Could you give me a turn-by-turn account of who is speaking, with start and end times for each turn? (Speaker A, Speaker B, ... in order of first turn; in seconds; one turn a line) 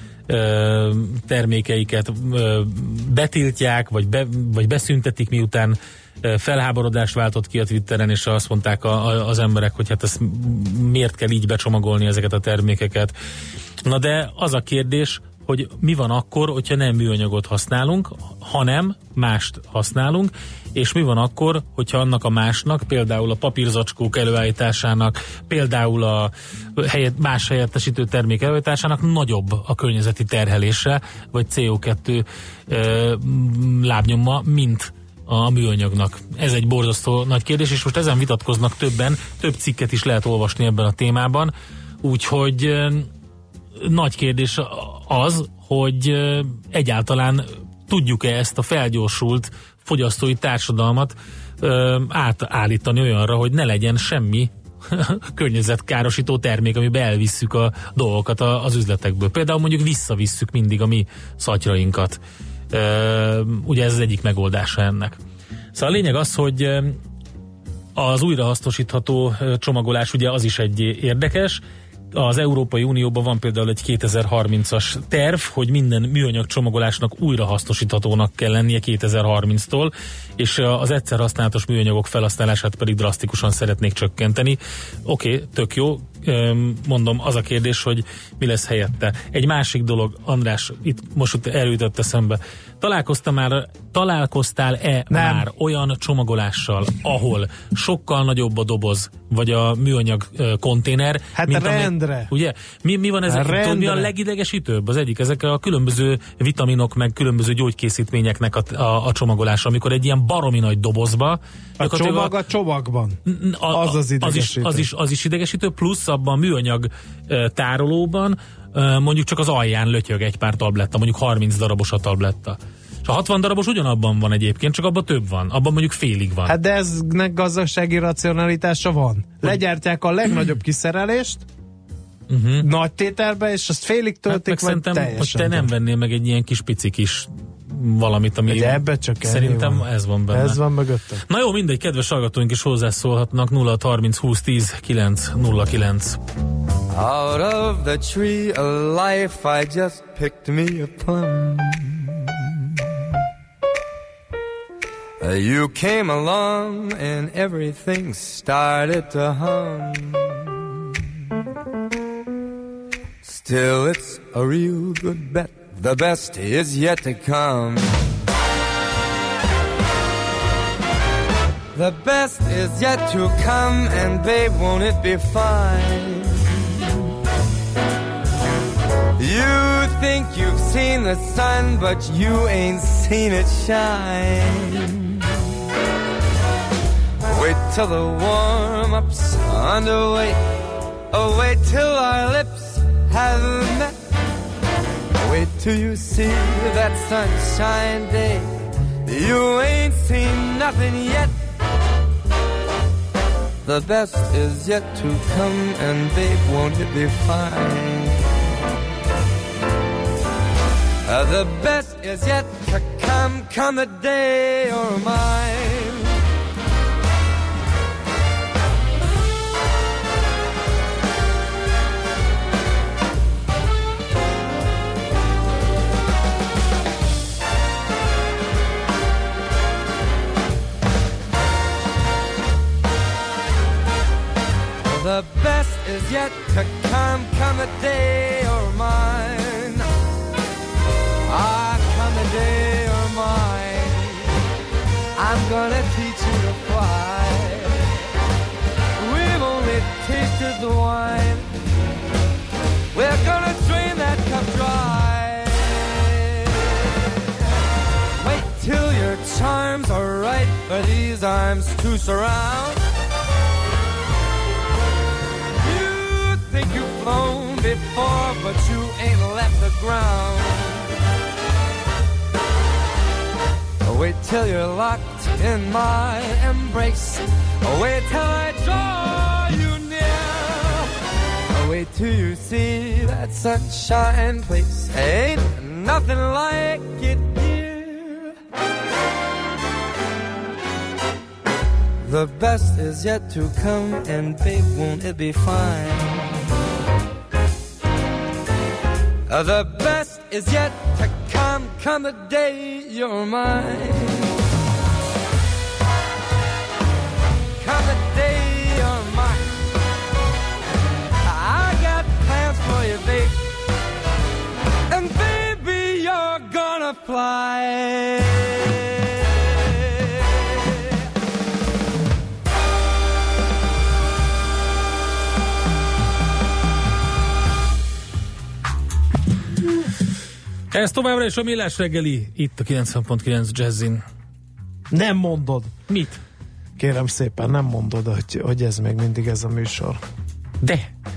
Speaker A: 0.3-13.1
Speaker A: 13.8-43.1
Speaker A: 43.8-62.2
Speaker A: 62.7-65.2
Speaker A: 65.7-67.0
Speaker A: 68.0-71.6
Speaker A: 72.1-112.3
Speaker B: 95.1-95.5
Speaker B: 101.3-102.3
Speaker B: 103.3-104.1
Speaker B: 111.8-113.2
Speaker A: 113.2-126.5
Speaker B: 113.7-114.9
Speaker B: 126.5-131.4
Speaker A: 132.3-132.7
Speaker B: 132.6-135.7
Speaker A: 134.3-140.6
Speaker B: 138.5-141.2
Speaker A: 141.3-146.2
Speaker C: 146.9-152.6
Speaker C: 155.2-160.6
Speaker C: 163.2-168.0
Speaker C: 171.7-176.5
Speaker C: 179.2-185.3
Speaker C: 187.2-190.4
Speaker C: 191.1-193.9
Speaker C: 195.2-198.5
Speaker C: 199.1-201.3
Speaker C: 203.6-208.2
Speaker C: 211.1-216.1
Speaker C: 234.8-239.8
Speaker C: 241.3-244.3
Speaker C: 245.2-247.9
Speaker C: 249.0-251.5
Speaker C: 252.9-257.1
Speaker C: 258.2-262.8
Speaker C: 265.6-270.9
Speaker C: 273.8-280.9
Speaker C: 281.5-288.3
Speaker C: 292.0-296.4
Speaker C: 299.3-304.3
Speaker C: 307.6-309.5
Speaker C: 311.2-313.4
Speaker C: 314.9-320.8
Speaker A: 330.7-334.0
Speaker B: 334.9-335.7
Speaker A: 335.9-336.2
Speaker B: 336.8-340.0
Speaker A: 340.6-340.9